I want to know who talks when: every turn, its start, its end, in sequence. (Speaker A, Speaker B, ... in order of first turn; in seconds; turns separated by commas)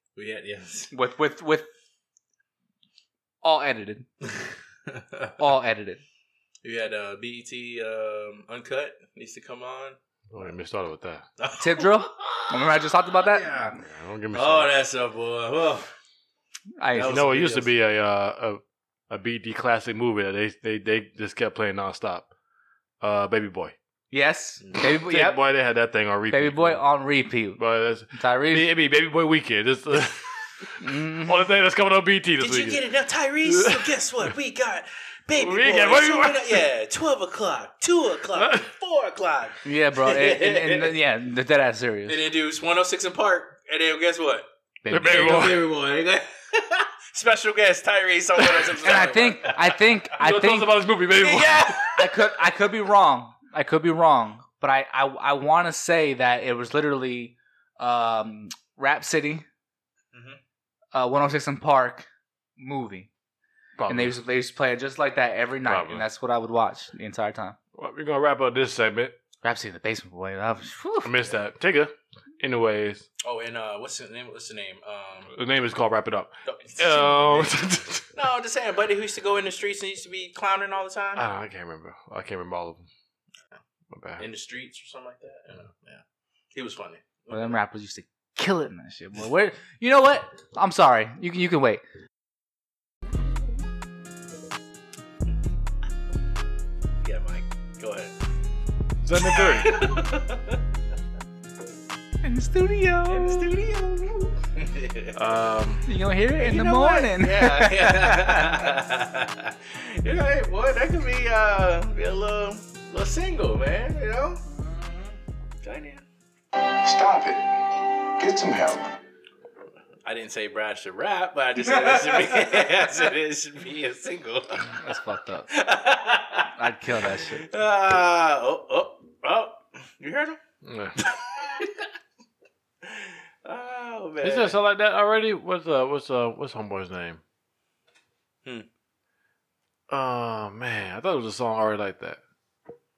Speaker A: 0.2-0.9, Speaker B: 0.9-1.7, Speaker B: 3.4-4.1, Speaker A: 4.4-5.4, Speaker B: 5.4-6.0, Speaker A: 6.6-10.0, Speaker C: 10.3-11.2, Speaker A: 11.4-13.8, Speaker B: 11.6-13.8, Speaker C: 13.8-14.7, Speaker A: 14.3-15.9, Speaker B: 16.8-17.2, Speaker A: 16.9-17.7, Speaker C: 17.0-22.3, Speaker C: 23.0-23.8, Speaker B: 24.1-25.4, Speaker A: 24.6-24.9, Speaker C: 25.0-26.8, Speaker B: 26.3-27.6, Speaker C: 27.6-32.8, Speaker B: 28.1-28.7, Speaker B: 30.8-31.5, Speaker A: 32.4-41.0, Speaker C: 33.5-34.3, Speaker C: 35.3-36.6, Speaker C: 38.4-38.7, Speaker B: 39.6-42.2, Speaker A: 42.1-44.5, Speaker B: 44.8-45.6, Speaker C: 44.9-45.6, Speaker A: 45.0-49.8, Speaker B: 48.8-50.8, Speaker C: 50.2-51.8, Speaker A: 51.1-52.3, Speaker B: 51.9-59.5, Speaker A: 60.1-60.4, Speaker B: 60.9-63.1, Speaker C: 63.8-64.2, Speaker B: 63.9-67.6, Speaker C: 65.7-66.0, Speaker C: 67.8-69.2, Speaker B: 69.4-71.1, Speaker C: 71.0-73.1, Speaker A: 73.2-75.3, Speaker C: 75.3-78.0, Speaker A: 76.5-77.6, Speaker A: 78.1-81.2, Speaker C: 81.2-82.9, Speaker C: 83.9-84.2, Speaker A: 84.2-87.6, Speaker B: 87.3-91.8, Speaker A: 97.0-98.1, Speaker C: 99.0-99.8, Speaker A: 99.2-100.6, Speaker B: 102.2-103.5, Speaker A: 103.1-105.2, Speaker C: 105.2-105.9, Speaker B: 105.9-108.7, Speaker A: 106.4-116.0, Speaker D: 116.6-119.0, Speaker A: 120.0-124.8, Speaker B: 124.8-125.5, Speaker A: 125.5-126.5, Speaker B: 126.6-127.5, Speaker A: 127.2-130.4, Speaker C: 130.6-131.0, Speaker A: 131.0-131.9, Speaker A: 132.8-134.6, Speaker C: 134.2-137.2, Speaker C: 139.9-142.2